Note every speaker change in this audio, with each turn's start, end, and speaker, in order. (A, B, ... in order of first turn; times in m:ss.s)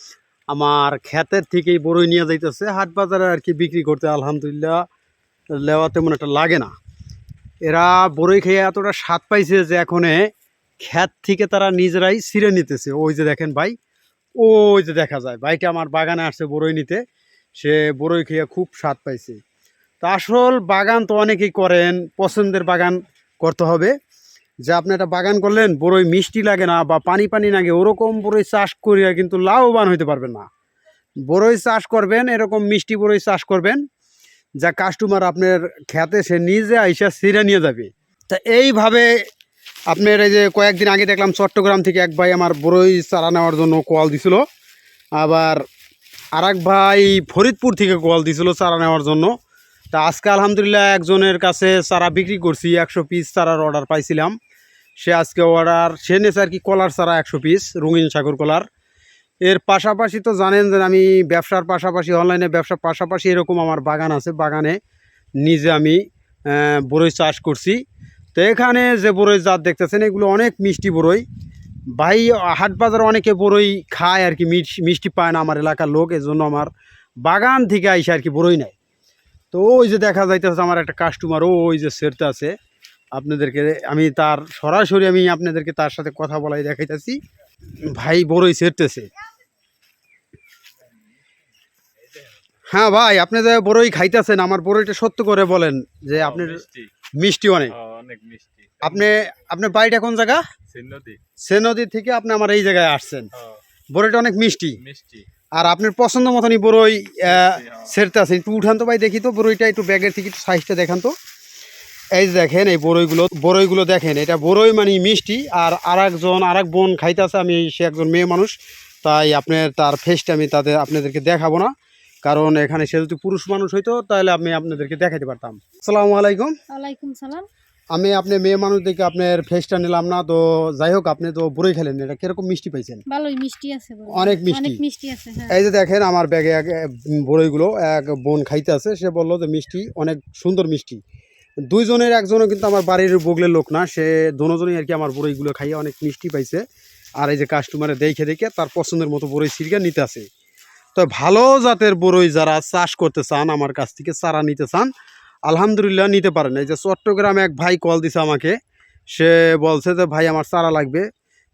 0:00.5-0:04.8 A
0:05.5-0:06.7 A
0:07.6-0:13.8 A
0:14.4-0:17.0 A
0:17.6-0:19.4 A
0:20.0-0:23.9 A
0:24.7-0:30.4 A
0:31.3-0:33.8 A
0:34.6-0:39.1 A
0:39.9-0:44.4 A
0:45.2-0:45.6 A
0:46.4-0:49.3 A
0:49.9-0:54.4 A
0:55.0-0:58.7 A
0:59.4-1:04.8 A
1:05.4-1:07.8 A
1:08.3-1:11.2 A
1:11.9-1:16.7 A
1:17.2-1:18.7 A
1:19.5-1:22.5 A
1:23.1-1:27.2 A
1:27.9-1:29.1 A
1:32.7-1:36.6 A
1:36.2-1:36.9 B
1:37.2-1:37.7 A
1:37.7-1:39.1 B
1:38.8-1:40.4 A
1:40.7-1:41.2 B
1:41.4-1:43.3 A
1:43.9-1:44.8 A
1:44.8-1:45.3 B
1:45.6-1:51.1 A
1:47.3-1:47.9 B
1:52.1-2:01.7 A
2:02.2-2:06.5 A
2:06.7-2:07.5 C
2:07.9-2:13.0 A
2:13.1-2:15.6 C
2:14.1-2:14.8 A
2:15.5-2:21.0 A
2:21.6-2:26.6 A
2:27.2-2:30.3 A
2:30.9-2:34.9 A
2:35.5-2:38.6 A
2:39.1-2:41.0 A